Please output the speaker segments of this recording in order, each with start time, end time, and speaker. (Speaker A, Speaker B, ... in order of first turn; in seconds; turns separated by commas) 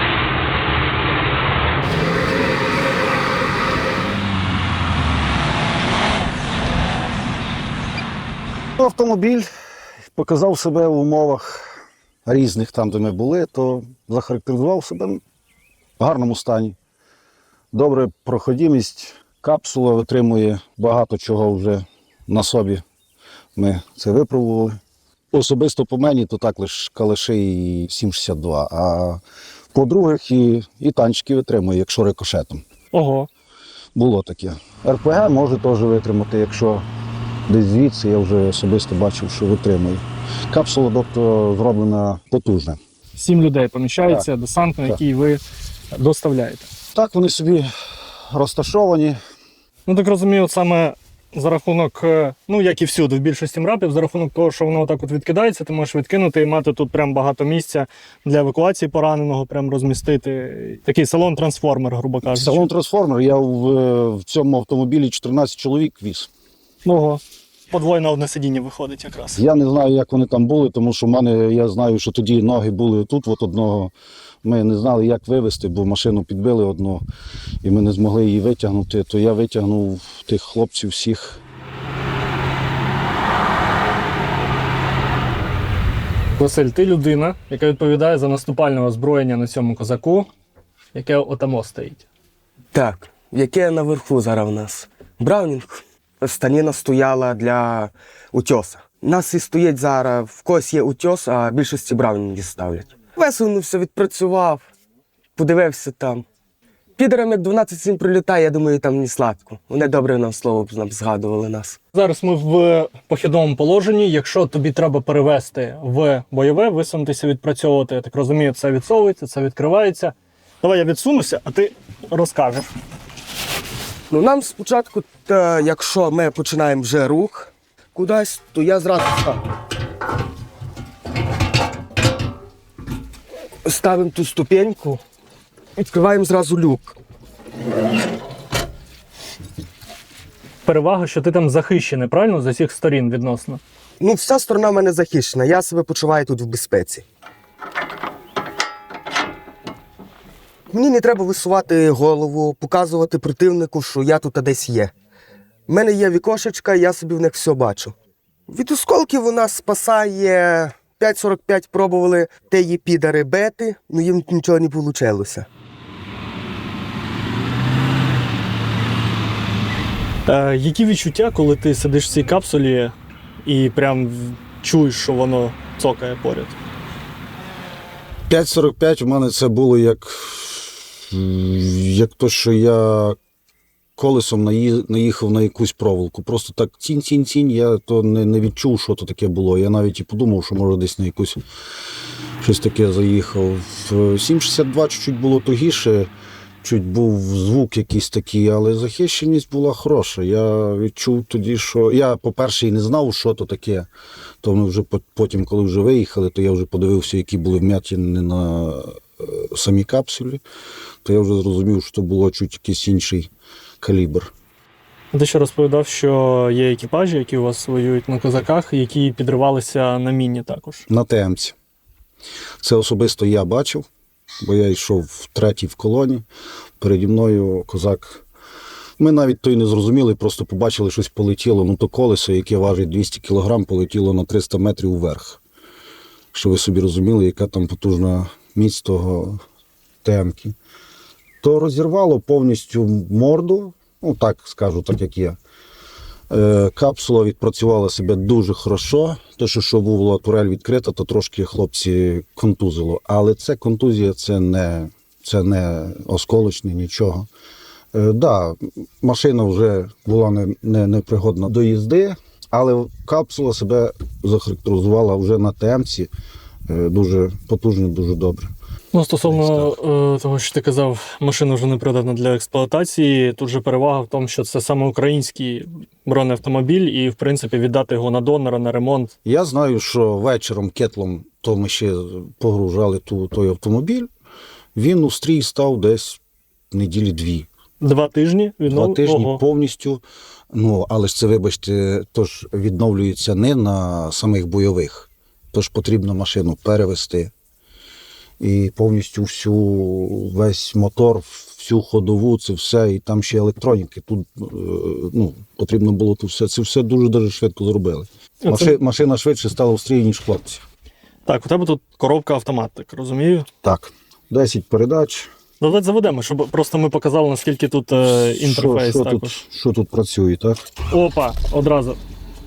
Speaker A: 8.8-9.5, Speaker A: 10.2-11.7, Speaker A: 12.2-15.2, Speaker A: 16.0-16.8, Speaker A: 17.7-22.8, Speaker A: 23.6-24.8, Speaker A: 25.3-29.2, Speaker A: 29.7-32.6, Speaker B: 32.9-33.3, Speaker A: 34.0-36.9, Speaker A: 37.5-42.8, Speaker B: 43.2-45.4, Speaker B: 45.9-46.7, Speaker A: 46.9-49.2, Speaker B: 49.9-62.7, Speaker A: 62.3-66.3, Speaker B: 66.8-69.4, Speaker A: 69.4-73.9, Speaker A: 74.4-77.0, Speaker A: 77.6-81.4, Speaker B: 86.4-90.3, Speaker B: 90.9-92.0, Speaker C: 92.7-104.7, Speaker C: 105.4-106.2, Speaker C: 107.0-111.8, Speaker B: 111.9-122.7, Speaker C: 124.1-129.4, Speaker C: 133.7-135.0, Speaker C: 135.8-136.9, Speaker B: 140.7-143.6, Speaker C: 144.0-147.0, Speaker C: 150.7-154.9, Speaker C: 155.7-157.9, Speaker C: 158.5-165.5, Speaker B: 170.3-176.6, Speaker A: 178.3-183.2, Speaker A: 184.0-191.4, Speaker A: 192.4-196.1, Speaker A: 196.6-203.9, Speaker A: 204.4-210.4, Speaker A: 211.0-214.3, Speaker B: 215.1-220.8, Speaker A: 220.9-221.6, Speaker A: 222.6-223.9, Speaker A: 224.4-226.3, Speaker A: 226.8-228.2, Speaker A: 229.0-235.4, Speaker A: 236.3-239.4, Speaker A: 240.0-240.6, Speaker A: 241.4-245.4, Speaker A: 246.3-257.3, Speaker A: 257.9-266.1, Speaker A: 266.7-268.5, Speaker B: 268.9-279.1, Speaker A: 269.3-269.7, Speaker A: 279.2-284.1, Speaker A: 284.8-286.2, Speaker A: 286.7-287.5, Speaker B: 287.8-289.4, Speaker A: 288.7-297.3, Speaker A: 298.4-310.6, Speaker B: 308.4-308.7, Speaker B: 311.3-313.5, Speaker A: 313.6-315.3, Speaker B: 315.6-319.4, Speaker A: 318.1-320.6, Speaker B: 320.9-322.0